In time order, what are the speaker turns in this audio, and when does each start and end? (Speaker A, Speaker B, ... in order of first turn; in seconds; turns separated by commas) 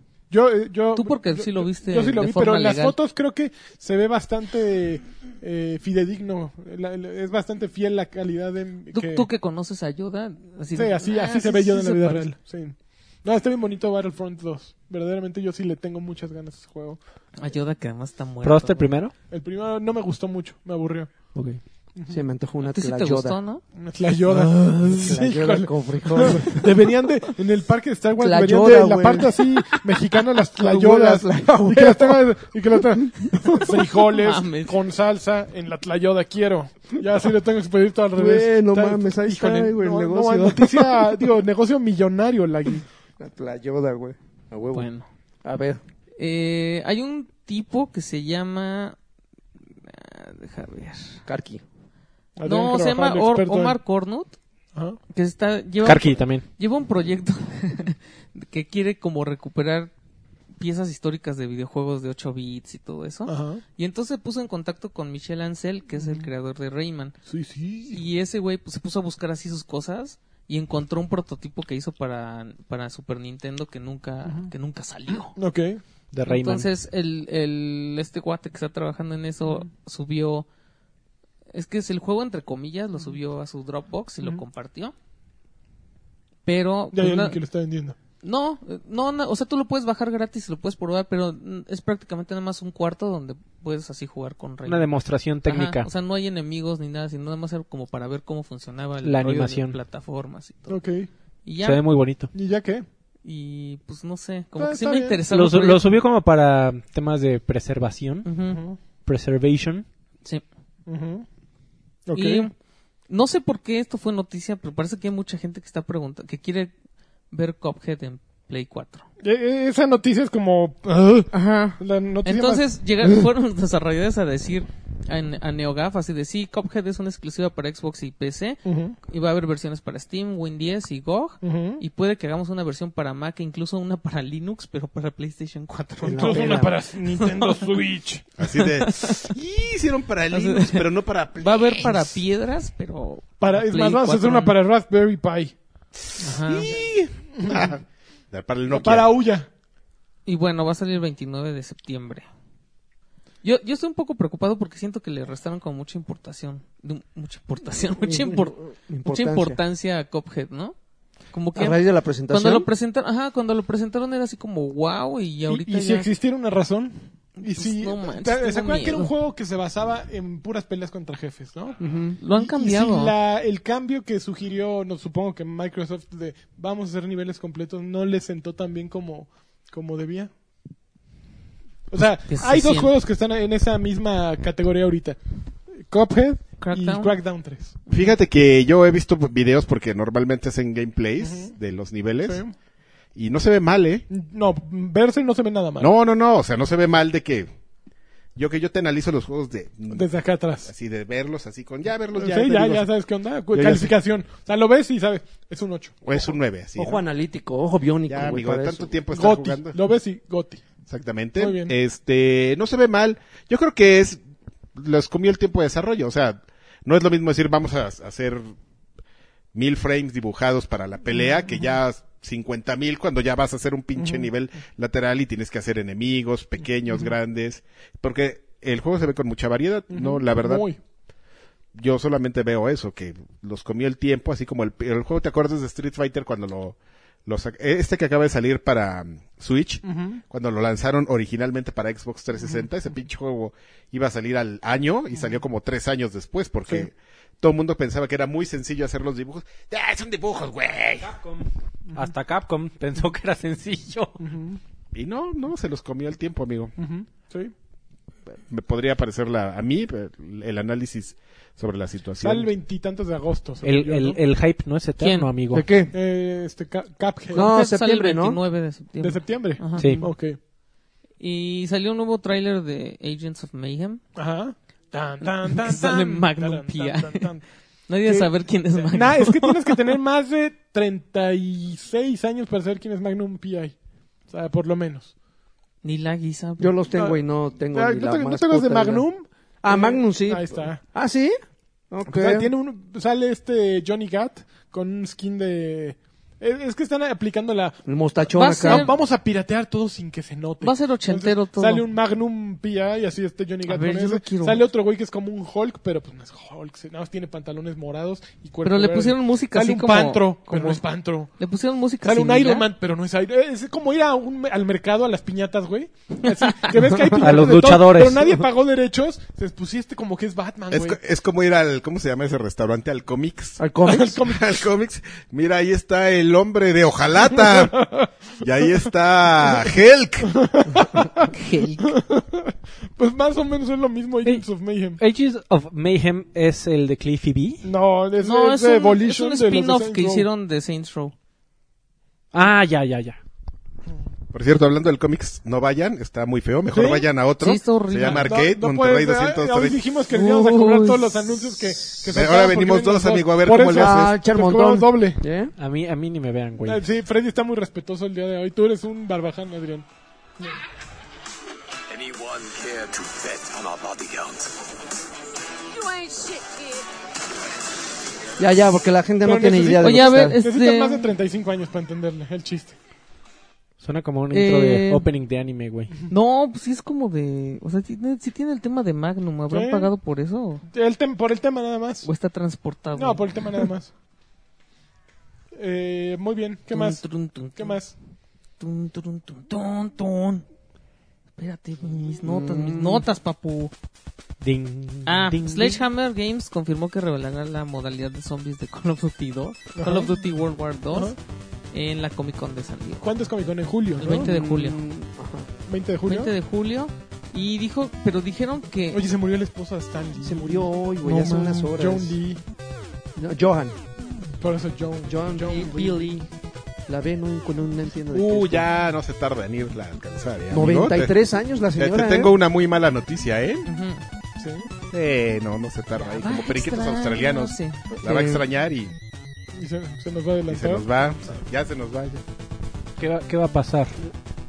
Speaker A: 0.3-9.3, Speaker B: 0.9-3.0, Speaker B: 8.9-12.3, Speaker A: 10.8-17.0, Speaker B: 17.4-18.9, Speaker C: 18.4-19.1, Speaker A: 19.3-21.1, Speaker C: 21.3-21.6, Speaker D: 22.1-23.4, Speaker B: 22.6-23.6, Speaker A: 23.8-42.9, Speaker D: 24.3-26.8, Speaker D: 28.2-29.8, Speaker D: 30.6-32.2, Speaker D: 32.8-33.9, Speaker B: 34.2-34.8, Speaker D: 38.1-41.1, Speaker D: 43.2-44.9, Speaker B: 44.7-45.1, Speaker D: 45.4-45.8, Speaker B: 46.2-49.0, Speaker B: 49.8-51.2, Speaker D: 51.3-51.6, Speaker A: 52.4-53.8, Speaker B: 52.5-54.4, Speaker B: 55.1-59.9, Speaker C: 55.8-56.4, Speaker B: 60.6-67.2, Speaker A: 63.3-63.6, Speaker A: 66.0-66.3, Speaker A: 67.3-68.0, Speaker B: 67.9-75.3, Speaker A: 75.2-75.8, Speaker C: 76.1-76.7, Speaker B: 76.3-80.5, Speaker B: 81.5-84.9, Speaker B: 86.5-87.4, Speaker A: 86.9-88.0, Speaker B: 88.2-94.9, Speaker C: 94.7-95.9, Speaker B: 95.5-100.8, Speaker C: 99.0-99.8, Speaker A: 100.7-101.1, Speaker B: 101.5-101.8, Speaker C: 101.6-102.3, Speaker A: 102.3-102.9, Speaker B: 103.2-105.9, Speaker A: 104.6-105.2, Speaker C: 105.3-108.3, Speaker B: 108.2-108.6, Speaker A: 108.5-108.8, Speaker C: 109.0-109.8, Speaker A: 110.9-111.3, Speaker A: 112.1-112.5, Speaker B: 112.2-112.5, Speaker B: 113.1-116.7, Speaker B: 117.3-119.0, Speaker A: 119.2-123.2, Speaker B: 121.3-137.7, Speaker A: 128.7-129.0, Speaker A: 131.4-131.8, Speaker D: 136.0-136.8, Speaker A: 136.1-138.3, Speaker E: 138.4-142.2, Speaker B: 138.6-139.3, Speaker B: 140.3-144.6, Speaker A: 143.4-145.6, Speaker B: 146.2-146.8, Speaker E: 146.3-149.2, Speaker A: 147.3-147.7, Speaker A: 148.7-149.5, Speaker B: 150.3-152.3, Speaker B: 153.4-160.8, Speaker D: 158.0-159.6, Speaker B: 161.3-166.1, Speaker D: 161.6-162.7, Speaker A: 165.5-171.8, Speaker B: 167.4-169.1, Speaker D: 171.8-172.2, Speaker B: 172.2-173.2, Speaker A: 172.3-180.3, Speaker A: 181.9-185.2, Speaker B: 182.3-182.9, Speaker A: 185.8-187.8, Speaker B: 186.6-187.2, Speaker E: 187.9-192.4, Speaker A: 191.2-191.5, Speaker A: 192.2-192.6, Speaker E: 193.2-194.1, Speaker A: 194.1-195.9, Speaker E: 195.8-197.5, Speaker E: 198.4-200.1, Speaker A: 199.9-200.7, Speaker E: 200.7-202.9, Speaker A: 202.2-206.0, Speaker E: 203.5-203.9, Speaker E: 206.0-207.0, Speaker D: 206.8-209.0, Speaker E: 208.1-209.8, Speaker A: 209.1-210.7, Speaker E: 210.9-214.2, Speaker A: 211.4-211.7, Speaker E: 214.8-218.5, Speaker E: 219.5-230.7, Speaker A: 221.1-221.7, Speaker A: 224.0-224.3, Speaker A: 226.9-227.1, Speaker A: 229.9-230.8, Speaker E: 231.8-251.1, Speaker A: 239.8-240.2, Speaker A: 242.4-242.7, Speaker C: 251.0-254.2, Speaker A: 254.2-254.6, Speaker E: 254.9-256.7, Speaker A: 256.8-257.5, Speaker E: 258.5-262.5, Speaker A: 262.2-264.2, Speaker C: 263.6-265.7, Speaker B: 265.0-265.3, Speaker D: 265.5-265.9, Speaker A: 265.9-267.5, Speaker D: 267.3-268.4, Speaker B: 267.3-270.1, Speaker A: 269.0-270.4, Speaker C: 269.8-270.0, Speaker B: 271.2-274.0, Speaker A: 274.2-277.4, Speaker B: 275.2-277.3, Speaker B: 277.9-279.8, Speaker A: 278.0-283.8, Speaker A: 284.3-285.1, Speaker B: 285.8-286.7, Speaker D: 286.6-289.1, Speaker A: 286.9-287.2, Speaker A: 287.7-290.8, Speaker D: 289.6-291.4, Speaker D: 291.9-292.5, Speaker A: 292.1-297.8, Speaker D: 297.9-298.9, Speaker B: 298.4-298.9, Speaker A: 298.6-311.3, Speaker B: 300.6-301.9, Speaker B: 303.7-304.6, Speaker B: 308.6-310.8, Speaker B: 311.4-312.7, Speaker A: 312.0-321.0, Speaker B: 316.2-316.7, Speaker C: 317.1-318.4, Speaker E: 320.7-327.9, Speaker D: 323.6-324.2, Speaker A: 323.9-324.4, Speaker A: 327.4-328.1, Speaker E: 328.4-330.4, Speaker A: 330.2-335.0, Speaker B: 331.3-332.0, Speaker C: 335.0-337.7, Speaker A: 337.6-340.3, Speaker B: 338.2-341.1, Speaker C: 342.3-343.2, Speaker E: 344.3-349.9, Speaker A: 346.7-347.1, Speaker B: 347.4-348.4, Speaker A: 348.2-355.2, Speaker D: 350.1-352.0, Speaker E: 352.1-354.2, Speaker D: 353.7-355.5, Speaker C: 355.6-356.8, Speaker A: 356.6-359.9, Speaker F: 361.9-364.5, Speaker D: 368.4-370.4, Speaker A: 369.2-372.8, Speaker B: 369.8-371.1, Speaker C: 373.8-375.9, Speaker B: 374.3-375.1, Speaker B: 376.1-380.6, Speaker A: 379.5-379.9, Speaker A: 380.7-382.1, Speaker B: 382.0-383.6, Speaker A: 382.9-383.9, Speaker A: 385.6-387.0, Speaker B: 386.7-387.8, Speaker A: 387.6-387.9, Speaker B: 388.6-390.4, Speaker B: 391.4-393.7, Speaker D: 392.2-393.1, Speaker C: 394.4-395.8, Speaker B: 395.1-401.2, Speaker A: 399.8-400.1, Speaker B: 401.7-403.1, Speaker A: 403.0-404.3, Speaker B: 404.0-404.8, Speaker D: 404.1-405.5, Speaker A: 405.7-406.3, Speaker B: 406.1-409.0, Speaker A: 408.9-412.4, Speaker D: 410.2-412.2, Speaker D: 413.2-413.8, Speaker A: 414.4-416.0, Speaker D: 415.1-416.3, Speaker D: 416.9-418.7, Speaker E: 418.1-421.1, Speaker D: 420.5-422.3, Speaker E: 421.8-423.7, Speaker B: 423.7-424.0, Speaker A: 424.4-424.7, Speaker E: 424.9-428.9, Speaker B: 426.0-427.8, Speaker D: 428.0-428.4, Speaker A: 429.5-430.9, Speaker E: 430.5-432.2, Speaker C: 433.0-433.9